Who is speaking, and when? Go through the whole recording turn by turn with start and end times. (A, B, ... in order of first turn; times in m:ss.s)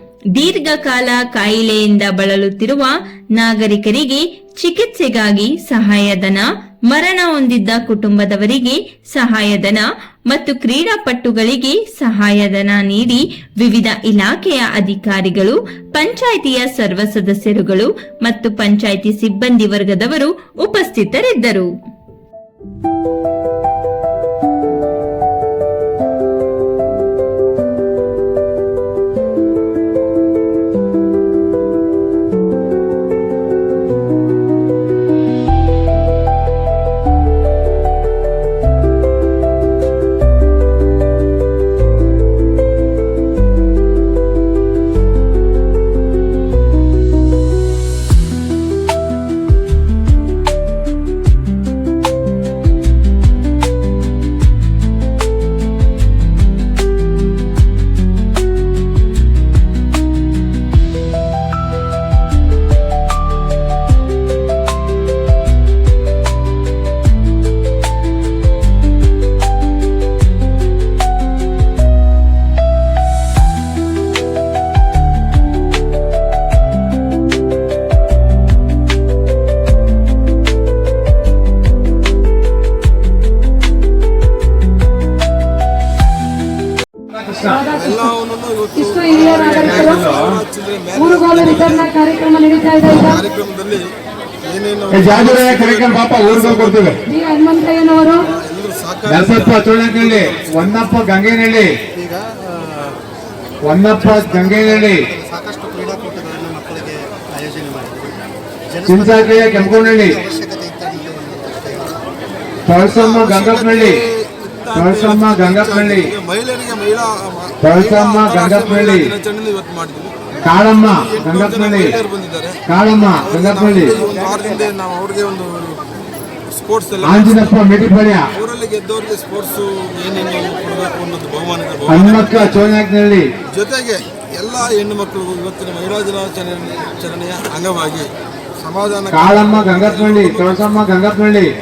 0:00.3-0:21.7 A
1:27.1-1:27.6 B
1:27.4-1:28.0 C
1:27.7-1:31.9 D
1:28.8-1:30.1 C
1:29.4-1:30.4 B
1:30.9-1:33.2 C
1:32.9-1:33.9 D
1:34.5-1:37.0 D
1:34.9-1:37.0 B
1:37.1-1:38.3 C
1:38.2-1:40.9 D
1:39.0-1:41.7 B
1:41.9-1:42.9 E
1:43.6-1:45.0 B
1:44.0-1:48.1 E
1:48.7-1:52.0 E
1:48.9-1:50.2 B
1:52.7-1:54.0 B
1:52.9-2:00.3 D
1:54.7-1:56.1 B
1:57.6-1:59.1 B
2:00.4-2:02.0 B
2:00.8-2:02.6 D
2:02.7-2:04.0 B
2:03.1-2:05.8 D
2:06.5-2:07.6 D
2:07.0-2:08.3 B
2:08.3-2:12.5 D
2:11.8-2:13.2 B
2:13.5-2:18.1 D
2:18.6-2:20.7 D
2:19.1-2:21.5 B